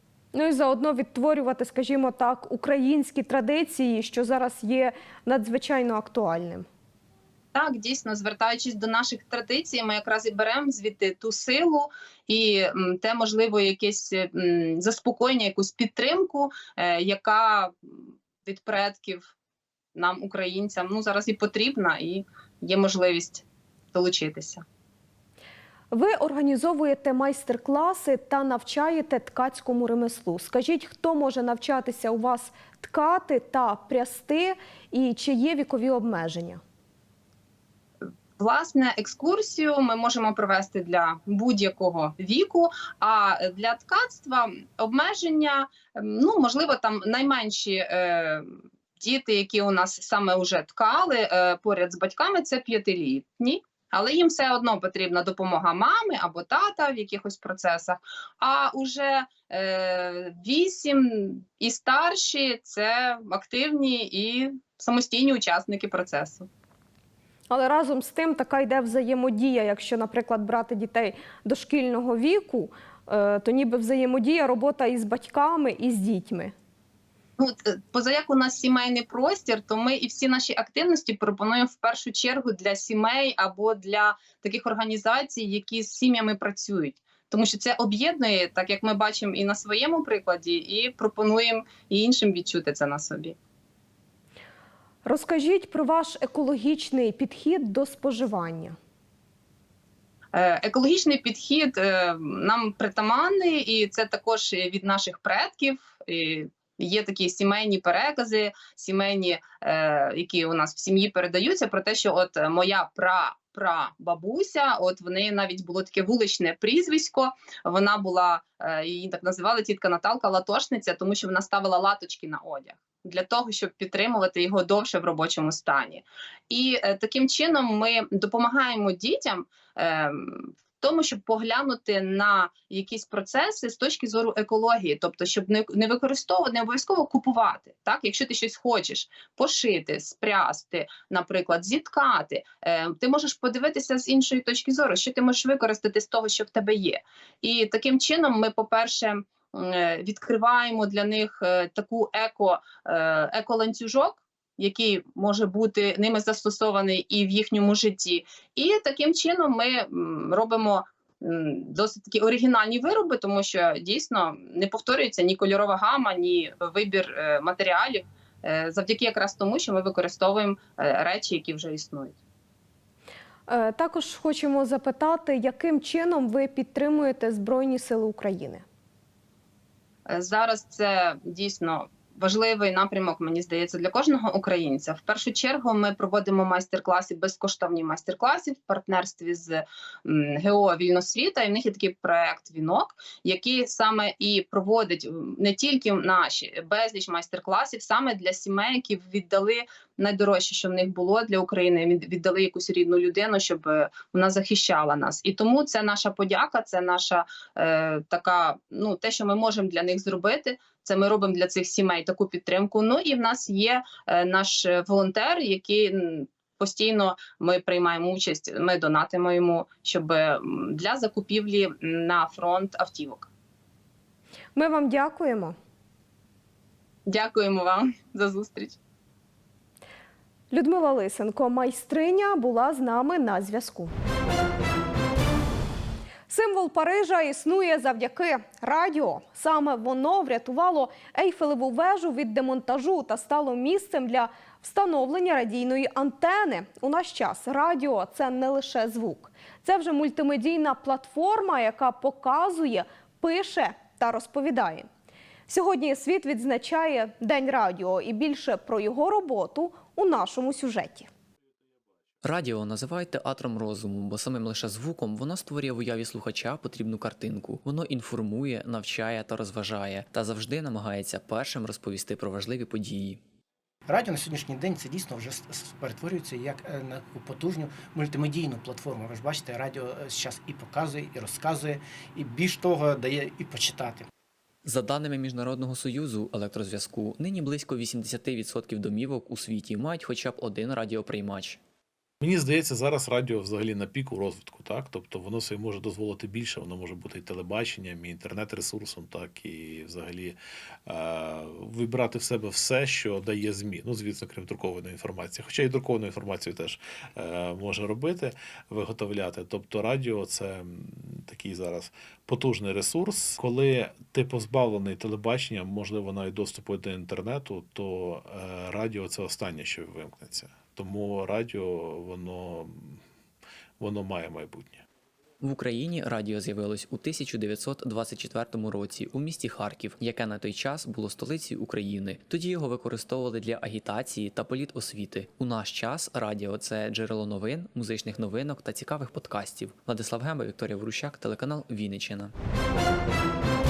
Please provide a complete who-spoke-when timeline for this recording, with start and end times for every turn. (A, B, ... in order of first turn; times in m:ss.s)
0:00.3-0:06.7 A
0:07.6-0:19.3 B
0:20.0-0:24.6 B
0:25.9-0:36.6 A
0:38.4-0:48.4 B
0:49.0-1:06.5 B
1:07.5-1:16.5 A
1:17.4-1:33.4 B
1:35.0-1:38.8 A
1:40.4-2:52.2 B
2:53.5-2:58.6 A
3:00.1-3:43.3 B
3:44.6-3:45.6 A
3:47.1-3:48.8 B
3:50.5-3:53.9 A
3:56.3-4:14.9 A
4:15.5-4:21.1 A
4:22.2-4:33.2 C
4:33.9-4:44.1 D
4:44.6-4:51.6 C
4:52.2-5:23.0 E
5:23.8-5:24.8 E
5:25.4-5:42.3 C